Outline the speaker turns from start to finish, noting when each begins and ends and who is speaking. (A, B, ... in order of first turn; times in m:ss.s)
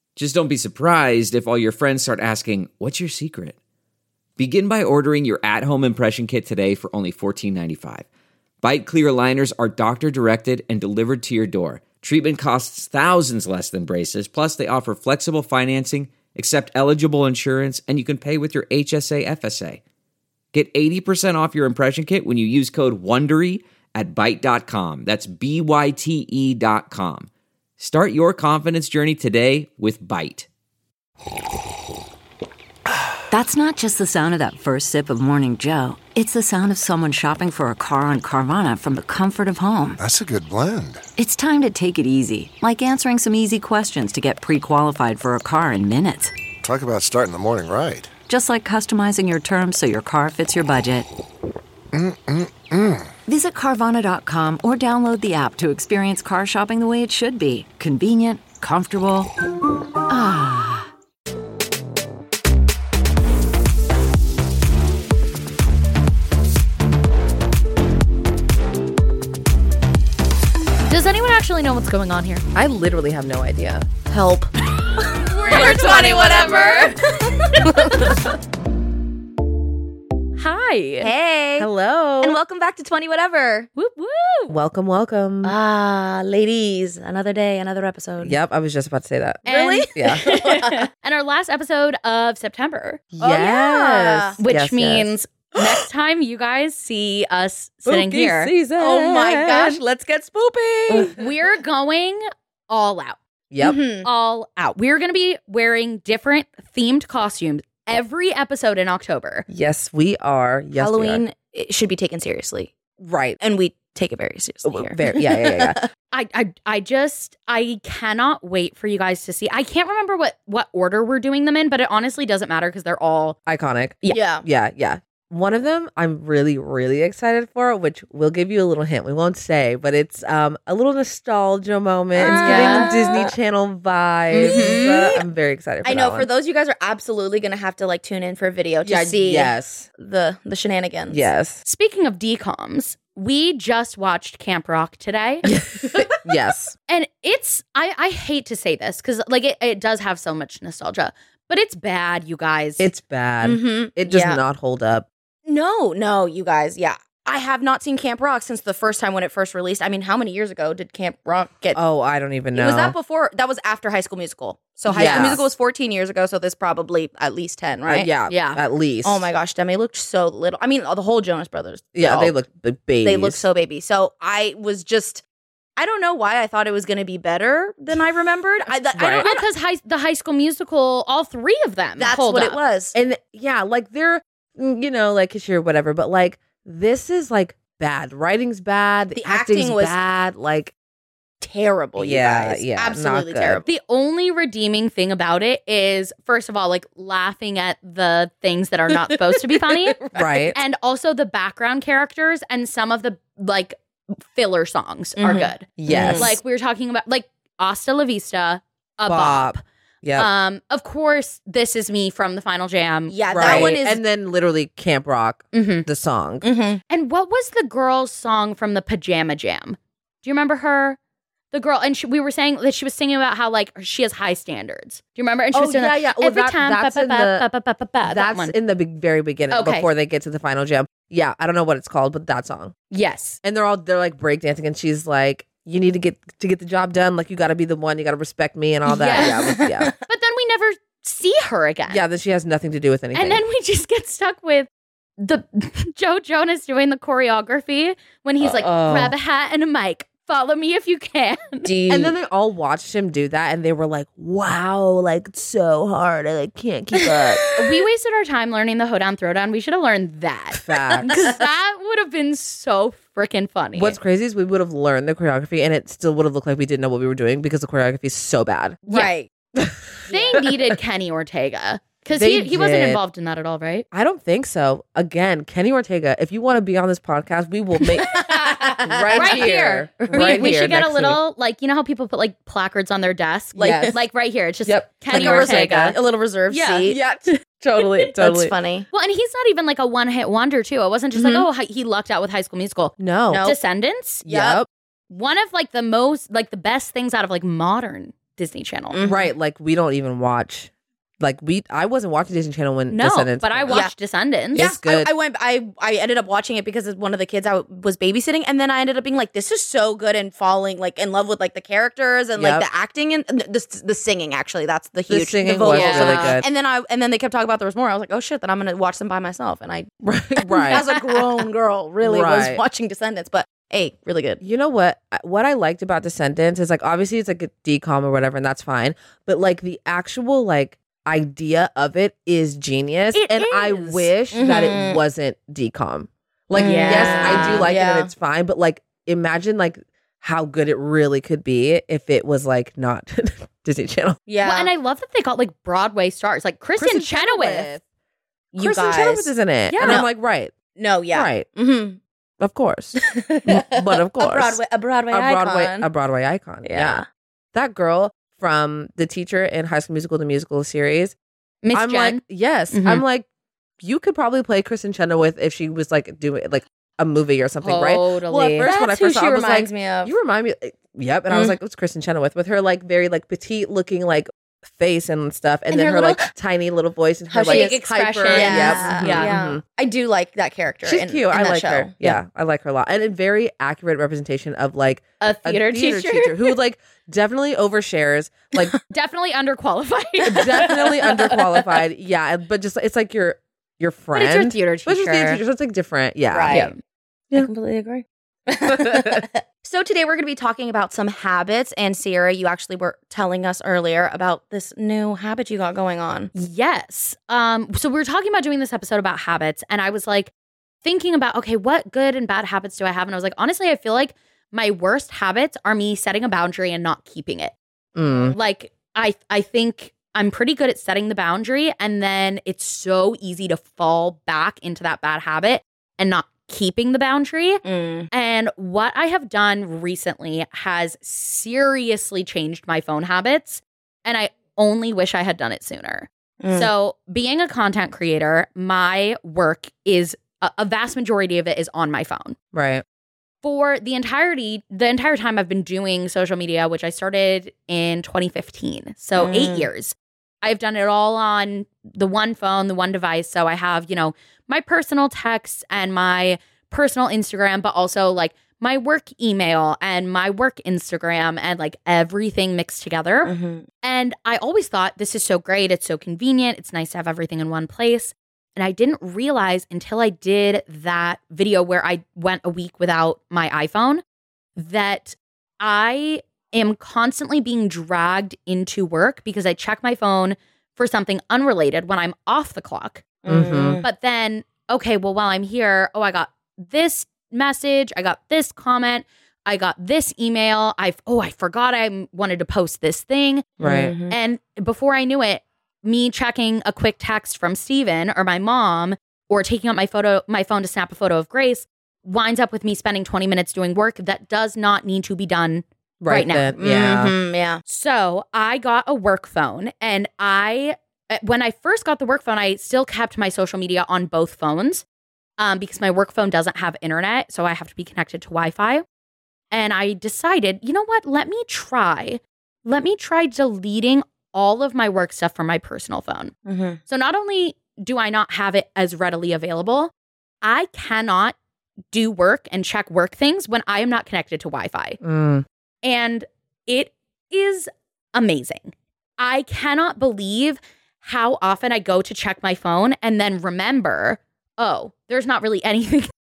0:00.2-0:03.6 A
0:04.4-0:08.1 A
0:08.6-0:19.8 A
0:20.5-0:30.5 A
0:33.3-0:40.0 B
0:40.0-0:41.0 C
0:41.2-0:46.3 B
0:46.6-0:48.1 C
0:48.3-0:51.1 B
0:51.9-0:53.1 C
0:53.3-0:59.3 B
1:00.1-1:00.9 B
1:10.9-1:12.4 D
1:12.6-1:13.9 E
1:14.1-1:18.1 F
1:15.4-1:18.0 D
1:20.4-1:21.1 D
1:21.0-1:21.7 F
1:21.6-1:22.4 E
1:22.2-1:23.7 F
1:23.8-1:24.6 D
1:24.5-1:25.6 E
1:25.4-1:28.4 F
1:28.2-1:30.3 E
1:29.5-1:33.0 D
1:29.5-1:30.9 F
1:33.1-1:35.2 E
1:33.2-1:34.4 F
1:34.4-1:38.5 D
1:37.9-1:39.8 E
1:38.8-1:41.2 F
1:40.9-1:41.2 E
1:41.0-1:43.2 D
1:43.5-1:43.8 E
1:43.6-1:44.1 F
1:44.0-1:49.5 D
1:49.5-1:51.2 E
1:50.8-1:52.7 F
1:53.0-1:53.4 E
1:53.4-1:55.9 F
1:54.6-1:55.8 E
1:56.1-2:03.4 D
2:03.5-2:16.3 E
2:04.1-2:04.4 F
2:12.2-2:13.3 F
2:12.2-2:13.0 D
2:14.3-2:15.0 D
2:14.3-2:15.1 F
2:15.8-2:21.2 F
2:18.8-2:19.9 E
2:21.1-2:21.6 E
2:21.6-2:25.5 D
2:25.5-2:26.8 E
2:26.9-2:32.9 D
2:32.8-2:35.1 E
2:33.4-2:34.4 F
2:35.5-2:41.8 F
2:41.8-2:43.0 E
2:42.5-2:48.1 F
2:44.9-2:45.5 E
2:44.9-2:45.3 D
2:47.9-2:49.3 E
2:48.3-2:48.6 D
2:49.0-2:52.3 F
2:52.0-2:53.4 E
2:53.0-2:55.2 F
2:55.8-2:59.4 F
2:59.0-2:59.3 E
2:59.1-3:02.6 D
3:02.0-3:03.0 F
3:03.0-3:10.7 E
3:09.2-3:10.0 F
3:11.4-3:13.6 F
3:12.0-3:13.6 E
3:13.6-3:20.0 D
3:19.2-3:20.5 F
3:20.1-3:20.6 E
3:20.6-3:23.8 D
3:24.3-3:29.6 D
3:25.2-3:26.4 F
3:25.8-3:26.4 E
3:29.1-3:30.3 E
3:30.2-3:33.8 D
3:33.1-3:34.0 F
3:33.3-3:36.5 E
3:35.5-3:35.9 D
3:36.4-3:36.8 F
3:36.9-3:41.0 D
3:41.5-3:48.5 D
3:45.5-3:47.4 E
3:48.0-3:52.8 E
3:49.5-3:49.9 D
3:52.9-3:53.4 D
3:53.4-3:59.9 E
3:58.9-4:02.0 D
3:59.2-4:00.0 F
4:01.9-4:03.4 E
4:03.1-4:11.7 D
4:08.6-4:09.1 E
4:11.6-4:12.1 F
4:11.9-4:17.4 E
4:17.0-4:17.8 F
4:17.6-4:24.0 D
4:20.5-4:21.1 E
4:21.0-4:21.3 F
4:23.7-4:28.9 E
4:28.9-4:29.3 F
4:29.6-4:30.6 E
4:30.0-4:30.4 F
4:30.1-4:33.9 D
4:32.1-4:33.0 E
4:33.9-4:41.2 E
4:38.0-4:40.6 F
4:38.1-4:46.0 D
4:43.6-4:44.0 F
4:43.6-4:44.0 E
4:44.7-4:45.9 E
4:45.1-4:47.0 F
4:46.5-4:47.0 D
4:46.9-4:48.5 E
4:47.7-4:48.9 F
4:48.9-4:54.2 D
4:51.2-4:51.5 F
4:53.0-4:53.5 E
4:53.3-4:53.6 F
4:54.2-4:54.7 E
4:54.3-4:54.6 F
4:55.1-4:59.0 D
4:58.9-4:59.3 F
4:59.1-5:03.8 E
5:02.9-5:04.7 D
5:04.5-5:05.1 E
5:04.5-5:19.9 F
5:12.4-5:12.6 E
5:15.1-5:16.5 E
5:15.7-5:16.4 D
5:20.0-5:20.9 E
5:20.5-5:24.4 F
5:22.0-5:22.6 E
5:24.4-5:44.2 E
5:33.1-5:34.1 D
5:34.3-5:35.0 F
5:36.6-5:38.1 F
5:36.6-5:37.7 D
5:44.3-5:44.7 F
5:44.4-5:47.7 D
5:46.8-5:47.8 E
5:48.5-5:50.5 E
5:48.6-5:49.3 F
5:49.7-5:50.0 D
5:49.8-5:50.1 F
5:50.8-5:52.0 F
5:51.1-5:51.5 E
5:52.4-5:54.6 E
5:53.0-5:55.9 F
5:55.1-5:57.0 E
5:56.6-5:57.0 F
5:57.5-6:01.2 E
6:01.6-6:03.0 D
6:01.7-6:03.3 E
6:03.8-6:19.6 E
6:07.6-6:08.7 D
6:08.6-6:10.1 F
6:15.7-6:16.3 F
6:17.3-6:17.8 F
6:17.4-6:19.3 D
6:18.3-6:22.0 F
6:20.8-6:28.8 E
6:25.2-6:26.6 D
6:28.9-6:31.1 D
6:30.3-6:36.7 E
6:30.6-6:31.3 F
6:34.1-6:35.4 D
6:36.3-6:36.7 F
6:36.5-6:36.8 D
6:37.3-6:46.3 F
6:38.7-6:39.2 E
6:46.3-6:50.3 D
6:50.8-6:57.6 D
6:58.0-6:58.4 E
6:58.3-7:22.4 D
7:07.6-7:08.1 F
7:16.4-7:16.7 F
7:22.5-7:22.8 E
7:23.4-7:43.3 D
7:29.2-7:29.7 F
7:43.2-7:43.6 F
7:43.8-7:54.0 D
7:54.6-8:03.1 D
8:03.2-8:03.9 F
8:03.3-8:03.8 E
8:03.8-8:26.6 D
8:13.6-8:13.9 E
8:13.6-8:14.2 F
8:26.0-8:27.2 E
8:26.6-8:27.6 F
8:27.7-8:34.8 D
8:35.4-8:38.8 D
8:39.5-8:46.3 D
8:46.5-8:46.8 F
8:46.9-8:49.9 D
8:50.4-8:51.4 D
8:51.9-8:55.0 D
8:55.0-8:55.4 E
8:55.8-9:06.1 D